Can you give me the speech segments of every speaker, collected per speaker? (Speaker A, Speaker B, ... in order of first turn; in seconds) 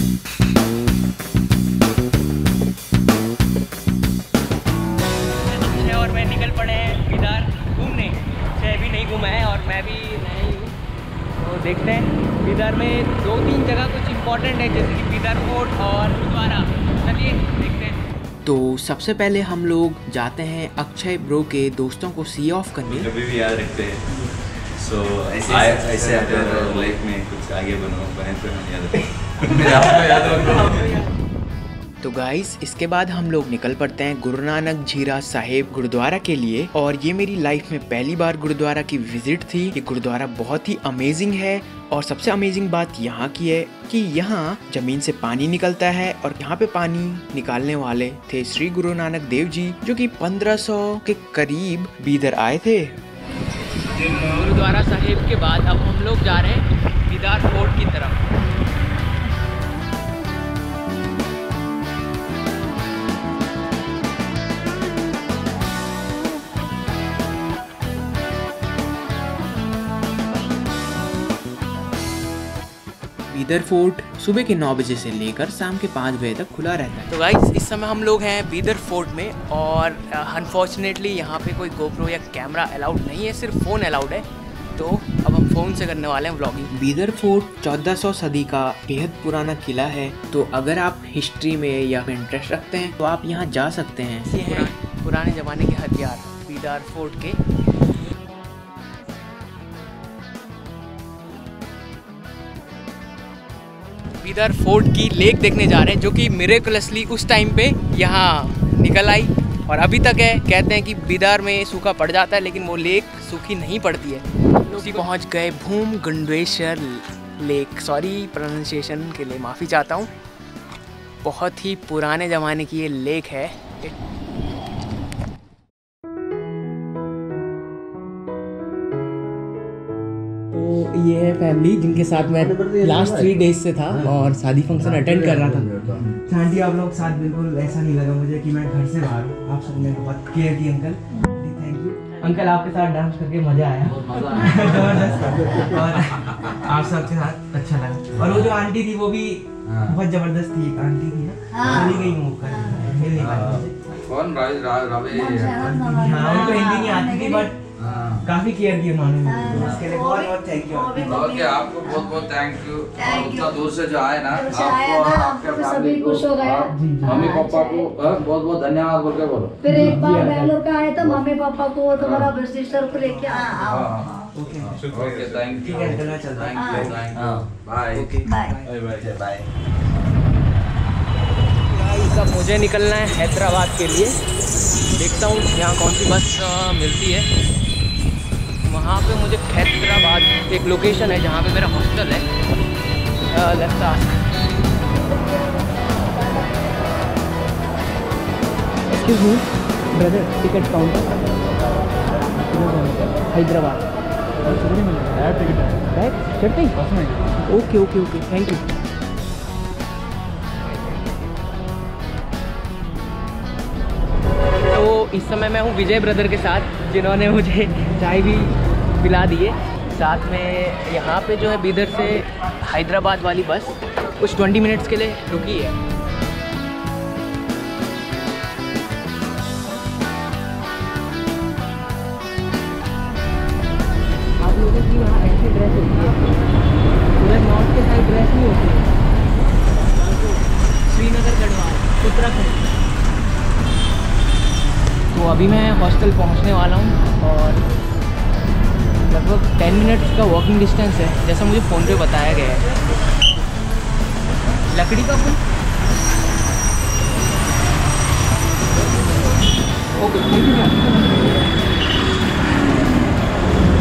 Speaker A: 5.5-10.7, 11.4-18.0, 53.9-58.2, 77.1-84.2, 84.8-86.7, 94.2-97.4, 104.2-120.1, 121.2-123.9, 130.5-136.0, 142.2-143.7, 166.7-167.2, 169.7-170.6, 177.9-178.3, 181.6-184.2, 184.9-187.3, 188.6-192.3, 193.3-194.2, 198.9-201.2, 202.2-203.9, 204.4-206.8, 207.5-208.6, 214.7-225.8, 234.4-236.3, 237.2-238.9, 239.8-242.7, 245.1-247.6, 249.1-252.6, 254.7-255.4, 260.0-261.4
Speaker B: 18.4-23.1, 32.0-53.0, 73.3-77.1, 86.7-94.7
Speaker C: 22.9-31.0, 174.8-175.9
Speaker D: 25.4-27.0, 29.4-30.6, 143.8-146.5, 148.2-148.5, 149.7-149.9, 151.6-152.2, 153.2-156.6, 157.8-158.2, 159.5-159.9, 161.0-169.6, 171.9-172.3, 173.6-179.2
Speaker E: 136.3-142.0, 143.5-153.9, 155.9-157.5, 158.2-161.3, 174.3-174.8, 175.5-176.7, 178.4-178.7
Speaker F: 151.5-151.8, 152.5-152.9, 155.1-157.5, 159.2-162.2, 163.0-163.6, 164.3-167.9, 169.6-174.3, 176.5-176.9, 178.2-178.6